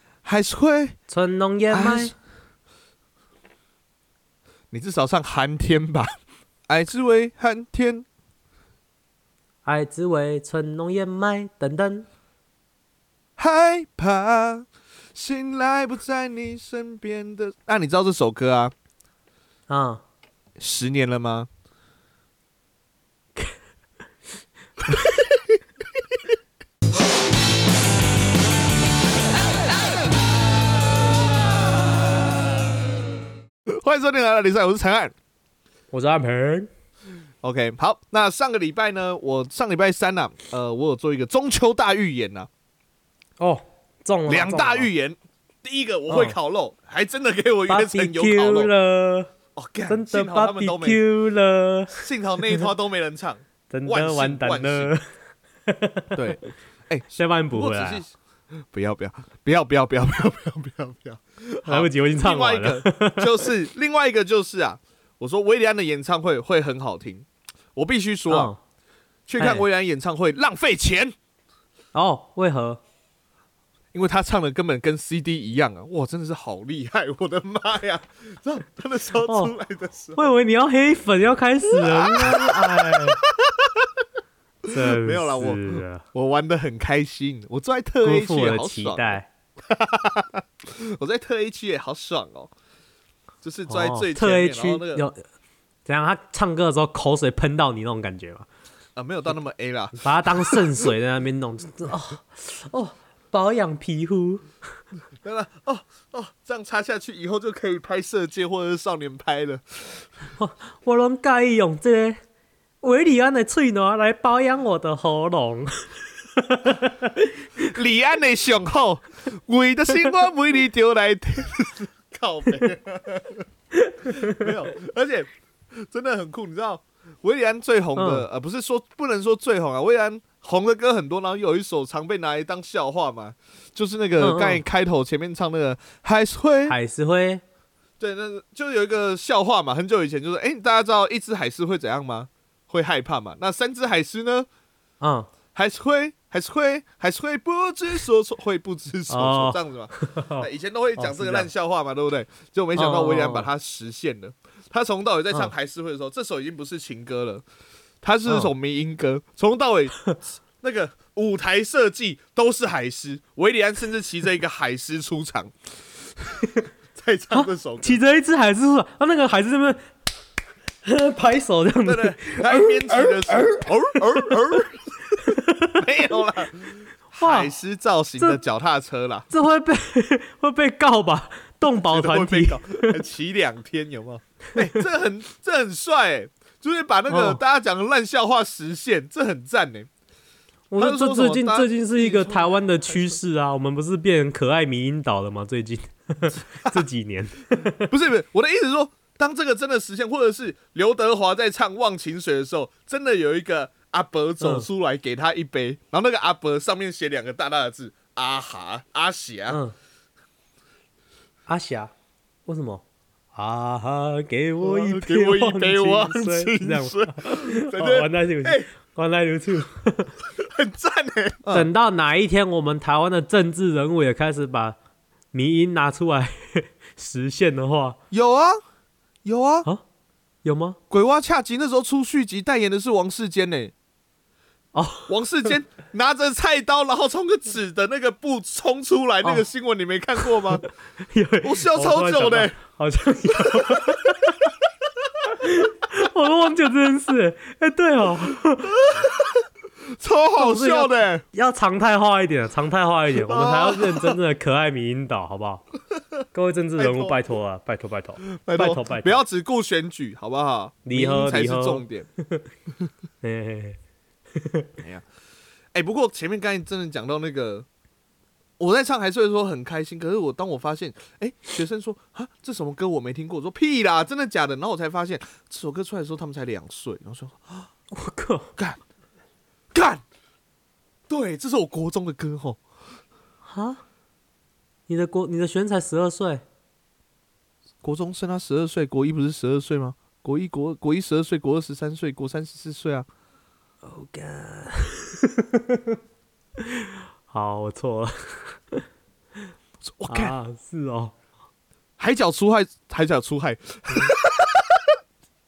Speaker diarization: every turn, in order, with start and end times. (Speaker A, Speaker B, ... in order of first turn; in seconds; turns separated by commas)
Speaker A: 0.2-1.0, Speaker B: 1.1-2.1, Speaker A: 1.7-2.1, Speaker A: 4.7-6.1, Speaker A: 6.7-8.1, Speaker B: 9.7-12.1, Speaker A: 13.4-18.7, Speaker B: 19.7-20.0, Speaker A: 20.6-21.5, Speaker B: 24.9-25.1, Speaker A: 33.7-35.1, Speaker B: 35.9-36.7, Speaker A: 37.4-42.5, Speaker B: 43.4-44.9, Speaker A: 44.3-48.7, Speaker B: 46.1-46.4, Speaker B: 47.7-49.3, Speaker A: 49.5-51.0, Speaker B: 49.9-52.7, Speaker A: 51.9-54.9, Speaker B: 53.7-55.0, Speaker B: 55.7-56.2, Speaker A: 56.1-58.1, Speaker B: 57.1-58.0, Speaker A: 58.7-68.5, Speaker B: 61.7-63.5, Speaker B: 68.3-68.6, Speaker A: 69.3-71.1, Speaker B: 69.4-69.6, Speaker B: 71.9-72.8, Speaker A: 73.9-80.3, Speaker B: 79.2-79.5, Speaker B: 80.2-83.2, Speaker A: 81.8-83.9, Speaker A: 84.7-92.5, Speaker B: 84.7-86.0, Speaker B: 88.0-89.3, Speaker A: 93.4-95.0, Speaker B: 93.7-95.2, Speaker B: 95.9-98.5, Speaker A: 99.0-100.6, Speaker B: 100.0-104.5, Speaker A: 105.2-110.0, Speaker B: 110.4-112.2, Speaker B: 112.8-117.3, Speaker A: 117.6-123.5, Speaker B: 123.8-124.5, Speaker A: 124.1-136.8, Speaker B: 128.0-128.3, Speaker B: 134.2-134.6, Speaker B: 136.7-137.4, Speaker A: 138.0-144.5, Speaker B: 145.0-145.3, Speaker A: 145.5-157.4, Speaker B: 149.1-150.5, Speaker B: 151.0-151.5, Speaker B: 152.8-153.5, Speaker A: 158.0-165.5, Speaker B: 158.3-158.5, Speaker A: 166.9-168.0, Speaker B: 167.3-169.8, Speaker B: 170.8-174.6, Speaker A: 171.8-179.3, Speaker B: 175.2-175.8, Speaker B: 177.2-177.5, Speaker B: 179.3-182.9, Speaker A: 181.8-189.9, Speaker B: 187.1-187.4, Speaker B: 190.7-197.8, Speaker A: 190.8-193.1, Speaker A: 196.5-196.9, Speaker A: 197.8-209.6, Speaker B: 204.4-204.7, Speaker B: 209.5-209.7, Speaker B: 211.5-211.9, Speaker B: 212.5-212.8, Speaker B: 213.3-220.1, Speaker A: 214.6-218.7, Speaker A: 220.4-221.7, Speaker B: 221.5-224.8, Speaker B: 225.3-228.0, Speaker A: 228.1-228.6, Speaker A: 229.2-229.7, Speaker B: 230.4-230.8, Speaker A: 230.9-233.7, Speaker B: 234.7-235.1, Speaker A: 235.1-240.7, Speaker B: 240.2-244.4, Speaker A: 241.4-242.6, Speaker B: 245.3-248.8, Speaker A: 248.8-249.3, Speaker A: 250.0-251.2, Speaker B: 250.4-255.6, Speaker A: 253.2-254.2, Speaker B: 256.3-259.2, Speaker A: 256.8-257.2, Speaker A: 258.2-262.1, Speaker B: 260.9-262.5, Speaker B: 263.2-263.8, Speaker B: 264.4-264.7, Speaker A: 265.7-267.7, Speaker A: 268.6-277.7, Speaker B: 277.9-278.5, Speaker A: 279.7-280.0, Speaker A: 281.1-282.6, Speaker B: 283.4-283.8, Speaker B: 284.9-286.4, Speaker A: 287.8-293.1, Speaker B: 293.8-296.0, Speaker B: 296.6-298.8, Speaker A: 299.8-300.4, Speaker B: 300.1-301.1, Speaker A: 302.0-304.8